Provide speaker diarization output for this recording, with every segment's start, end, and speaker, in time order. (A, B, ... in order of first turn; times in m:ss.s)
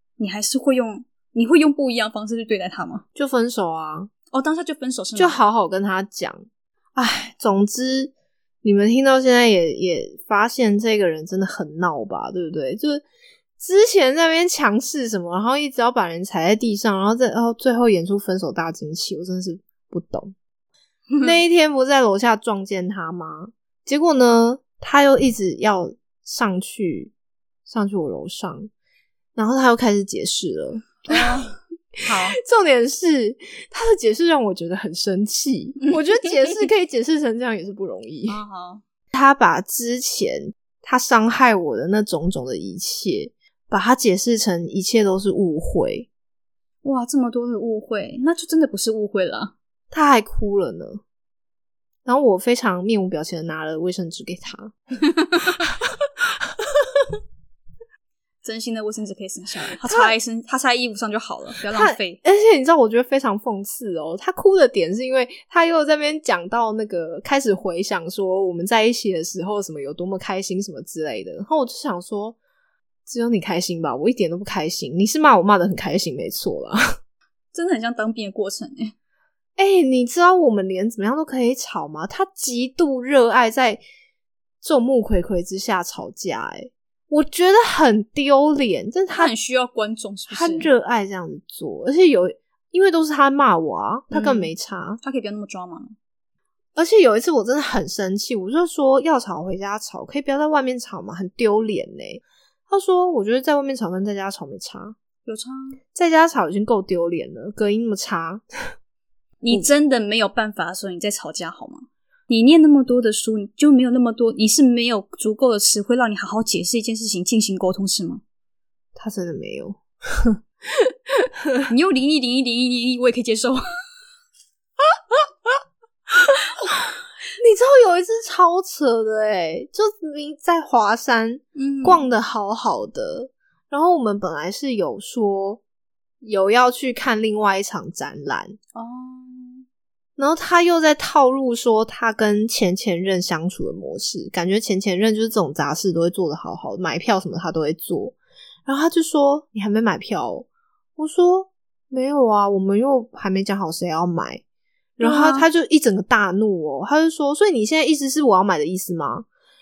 0:00.2-0:03.0 A
0:03.1-0:04.1 B
0:04.3-0:05.4 A
0:05.2-0:08.1 B
0:08.6-0:13.0 B
0:13.6-0:20.3 B
0:21.2-0:27.1 B
0:27.6-0:28.7 B
0:29.4-0:31.4 B
0:31.1-0:32.4 A
0:32.1-0:38.4 B
0:38.3-0:38.8 A
0:39.1-0:46.1 B
0:46.8-0:49.5 A
0:49.9-0:51.0 B
0:52.0-0:54.8 B
0:55.4-0:55.9 B
0:58.4-1:02.2 A
0:59.8-1:00.1 B
1:01.7-1:12.4 B
1:13.1-1:16.9 B
1:17.5-1:18.9 A
1:19.6-1:23.8 B
1:24.6-1:29.3 B
1:29.1-1:30.7 A
1:30.3-1:35.0 B
1:34.1-1:36.0 A
1:36.8-1:45.0 B
1:45.2-1:45.8 A
1:45.9-1:48.4 B
1:49.4-1:58.2 A
1:59.0-2:01.6 B
2:01.7-2:03.6 A
2:05.0-2:05.6 B
2:06.1-2:15.6 B
2:11.5-2:12.0 A
2:16.2-2:18.6 B
2:18.7-2:19.6 A
2:20.2-2:34.4 B
2:35.0-2:39.3 B
2:35.0-2:35.4 A